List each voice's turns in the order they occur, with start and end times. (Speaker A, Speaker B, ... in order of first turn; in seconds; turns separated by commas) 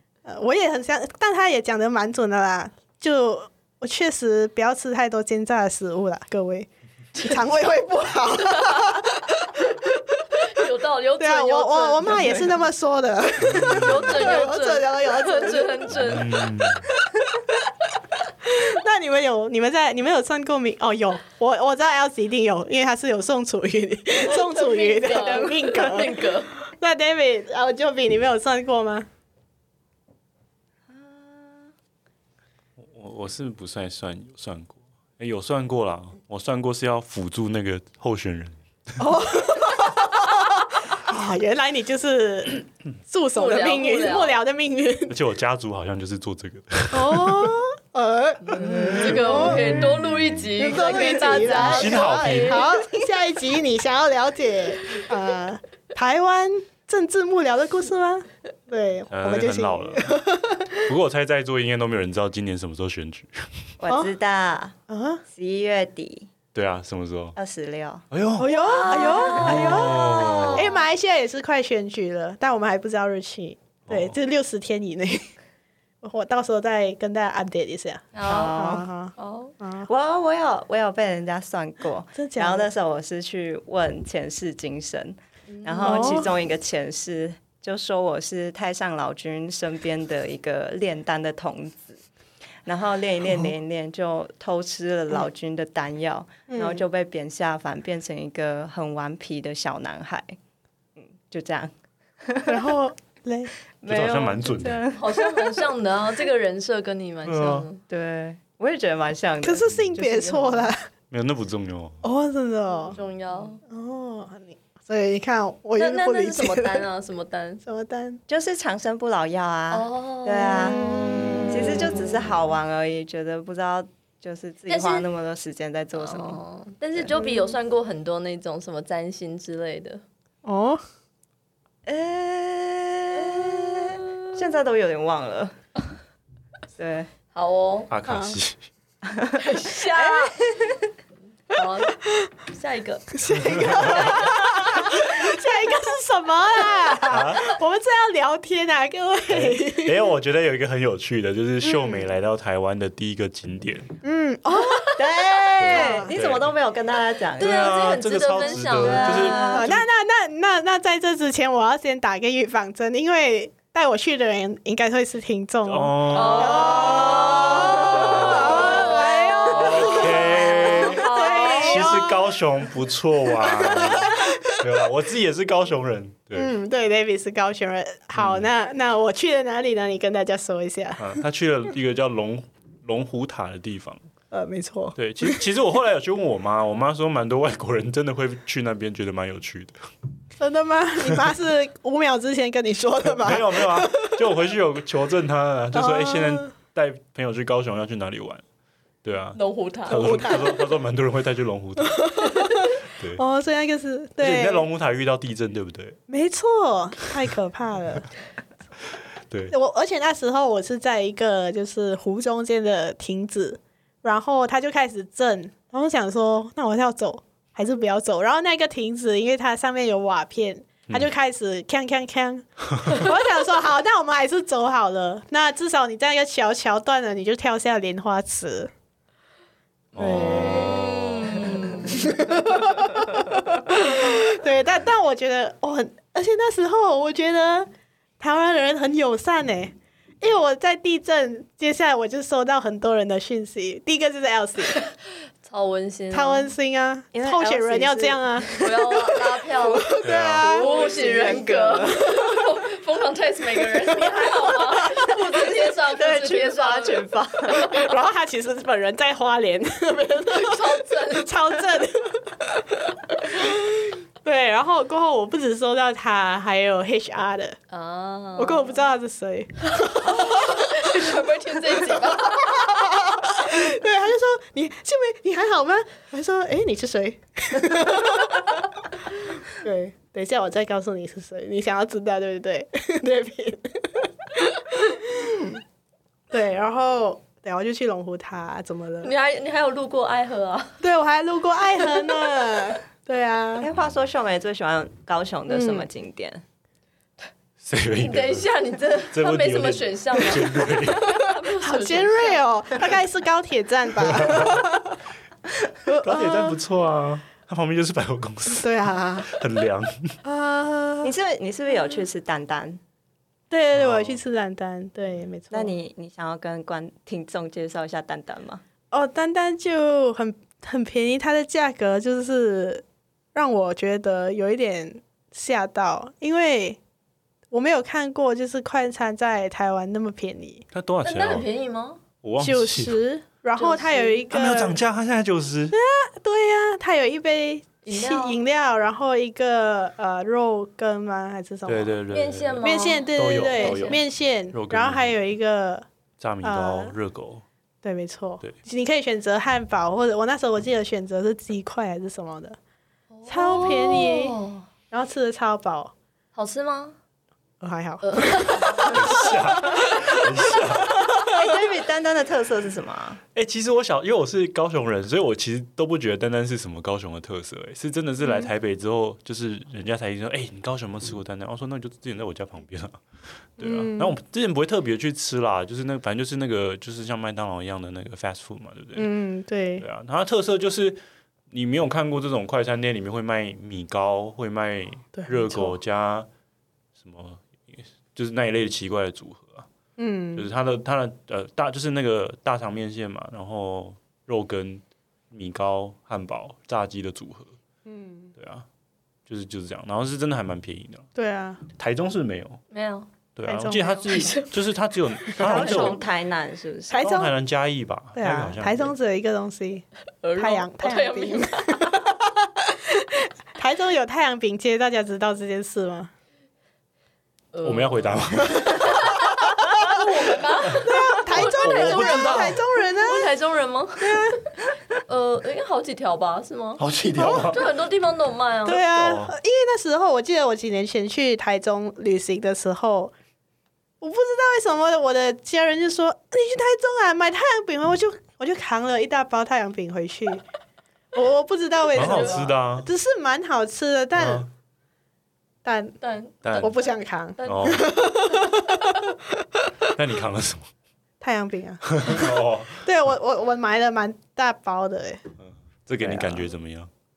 Speaker A: 0.2-10.4, Speaker B: 10.4-12.5, Speaker A: 11.2-15.9, Speaker C: 13.4-14.3, Speaker B: 13.7-16.5, Speaker C: 15.9-16.9, Speaker A: 17.1-17.6, Speaker A: 18.4-29.1, Speaker B: 24.3-26.5, Speaker D: 30.9-31.7, Speaker C: 32.8-38.6, Speaker A: 39.0-45.2, Speaker B: 43.4-44.4, Speaker C: 45.1-47.5, Speaker A: 46.9-49.8, Speaker B: 48.4-52.7, Speaker C: 48.7-50.2, Speaker A: 50.6-60.9, Speaker C: 51.5-52.7, Speaker C: 59.1-60.2, Speaker C: 60.8-63.7, Speaker D: 63.8-64.8, Speaker A: 64.9-65.2, Speaker D: 65.3-66.3, Speaker C: 66.5-67.4, Speaker D: 67.4-68.0, Speaker C: 68.1-68.5, Speaker A: 68.4-75.3, Speaker B: 68.5-70.7, Speaker C: 69.3-70.7, Speaker D: 69.9-70.5, Speaker C: 73.9-74.2, Speaker A: 76.0-79.9, Speaker B: 78.1-79.5, Speaker D: 78.3-78.9, Speaker D: 79.9-92.0, Speaker A: 82.2-82.7, Speaker B: 85.5-86.2, Speaker A: 85.8-86.3, Speaker D: 92.7-100.4, Speaker A: 96.5-96.8, Speaker D: 101.0-102.7, Speaker A: 102.5-103.5, Speaker D: 103.8-105.7, Speaker C: 103.9-104.8, Speaker B: 105.0-107.8, Speaker C: 107.3-107.7, Speaker D: 107.9-110.7, Speaker A: 109.4-110.9, Speaker C: 111.1-112.0, Speaker A: 112.0-113.0, Speaker B: 112.9-113.6, Speaker A: 113.7-116.8, Speaker B: 115.8-117.6, Speaker A: 117.6-118.2, Speaker D: 118.3-126.4, Speaker B: 119.7-120.9, Speaker A: 120.7-122.0, Speaker B: 124.7-125.1, Speaker B: 126.0-130.0, Speaker A: 127.1-127.5, Speaker A: 130.4-130.8, Speaker D: 131.9-135.6, Speaker B: 133.2-134.2, Speaker D: 136.8-137.1, Speaker B: 137.3-137.9, Speaker C: 137.9-138.6, Speaker A: 138.1-138.4, Speaker D: 139.1-139.4, Speaker B: 139.4-140.4, Speaker D: 139.9-140.8, Speaker B: 141.5-143.1, Speaker A: 143.1-150.0, Speaker C: 143.3-144.3, Speaker C: 147.1-147.6, Speaker C: 149.3-153.9, Speaker A: 151.6-152.1, Speaker A: 154.0-156.1, Speaker D: 154.6-157.8, Speaker C: 155.6-156.5, Speaker C: 157.4-159.8, Speaker B: 157.4-159.6, Speaker D: 158.7-159.7, Speaker A: 159.5-172.3, Speaker C: 165.7-176.5, Speaker B: 166.1-172.0, Speaker A: 173.4-174.6, Speaker A: 176.3-181.2, Speaker C: 178.2-178.5, Speaker C: 181.0-184.0, Speaker A: 184.3-185.4, Speaker C: 185.0-189.8, Speaker A: 190.4-194.2, Speaker C: 193.1-198.4, Speaker A: 195.7-196.5, Speaker C: 199.0-202.4, Speaker B: 199.3-200.2, Speaker A: 199.9-200.7, Speaker A: 201.8-204.7, Speaker C: 203.0-203.2, Speaker C: 204.2-206.0, Speaker A: 206.1-208.1, Speaker A: 209.5-228.7, Speaker C: 229.9-231.8, Speaker A: 230.0-231.0, Speaker B: 230.6-232.1, Speaker A: 231.6-244.8, Speaker B: 245.4-246.5, Speaker A: 246.1-248.7, Speaker D: 247.1-248.7, Speaker B: 248.6-257.1, Speaker A: 249.7-250.7, Speaker C: 250.0-250.5, Speaker D: 250.4-252.3, Speaker D: 255.0-257.9, Speaker A: 257.5-267.6, Speaker B: 260.3-261.3, Speaker B: 267.7-268.8, Speaker A: 268.4-271.2, Speaker B: 269.9-272.6, Speaker A: 271.9-278.6, Speaker A: 279.4-285.6, Speaker A: 286.3-289.1, Speaker B: 289.0-290.8, Speaker A: 290.8-293.7, Speaker D: 293.6-296.4, Speaker A: 295.5-295.9, Speaker C: 297.6-298.5, Speaker B: 298.0-302.4, Speaker C: 299.1-301.3, Speaker A: 301.6-305.0, Speaker C: 304.0-304.6, Speaker A: 305.9-306.6, Speaker C: 305.9-308.7, Speaker A: 308.6-309.3, Speaker C: 309.2-310.2, Speaker A: 310.2-311.1, Speaker D: 311.0-312.8, Speaker A: 313.5-315.7, Speaker C: 313.8-314.2, Speaker D: 315.5-318.6, Speaker A: 318.9-326.8, Speaker A: 327.5-330.6, Speaker C: 330.7-331.5, Speaker B: 331.0-332.0, Speaker C: 332.2-333.0, Speaker A: 332.4-334.8, Speaker B: 333.6-334.3, Speaker C: 334.3-335.8, Speaker A: 335.7-341.9, Speaker B: 337.9-338.4, Speaker C: 341.7-345.1, Speaker B: 342.1-344.0, Speaker A: 342.6-345.9, Speaker C: 346.2-347.4, Speaker A: 346.4-346.9, Speaker A: 347.8-352.6, Speaker B: 353.1-354.7, Speaker A: 353.3-354.4, Speaker A: 354.9-355.9, Speaker B: 356.4-357.0, Speaker A: 357.6-360.3, Speaker B: 358.0-359.0, Speaker C: 358.8-361.1, Speaker D: 361.1-363.2, Speaker C: 363.4-373.0, Speaker C: 373.6-379.1, Speaker A: 373.6-374.1, Speaker A: 379.0-379.9, Speaker C: 379.8-381.0, Speaker C: 381.5-386.3, Speaker A: 385.1-385.8, Speaker C: 387.0-389.7, Speaker A: 390.0-390.5, Speaker C: 390.4-397.5, Speaker A: 397.9-398.3, Speaker C: 398.4-398.6, Speaker C: 399.3-401.1, Speaker A: 401.1-401.6, Speaker C: 401.7-402.6, Speaker B: 402.7-403.1, Speaker C: 403.4-406.0, Speaker A: 403.4-404.3, Speaker B: 404.1-404.5, Speaker D: 405.4-407.1, Speaker A: 405.4-406.0, Speaker A: 406.9-407.3, Speaker C: 406.9-408.9, Speaker A: 408.2-409.9, Speaker B: 410.2-411.9, Speaker A: 410.4-416.1, Speaker B: 417.5-424.4, Speaker C: 417.6-419.1, Speaker A: 419.7-420.0, Speaker A: 420.7-423.3, Speaker C: 421.3-422.6, Speaker A: 424.0-424.4, Speaker B: 425.1-428.8, Speaker C: 426.8-427.7, Speaker A: 427.2-427.5, Speaker A: 428.6-433.1, Speaker C: 428.9-429.4, Speaker A: 434.0-440.4, Speaker A: 441.1-444.5, Speaker B: 441.9-442.4, Speaker C: 441.9-442.9, Speaker C: 444.1-444.5, Speaker A: 445.6-446.0, Speaker B: 446.0-447.9, Speaker C: 446.4-446.7, Speaker A: 446.6-449.2, Speaker C: 447.4-447.9, Speaker C: 449.9-450.7, Speaker A: 451.2-455.2, Speaker C: 451.9-452.8, Speaker C: 455.4-456.9, Speaker A: 456.0-456.5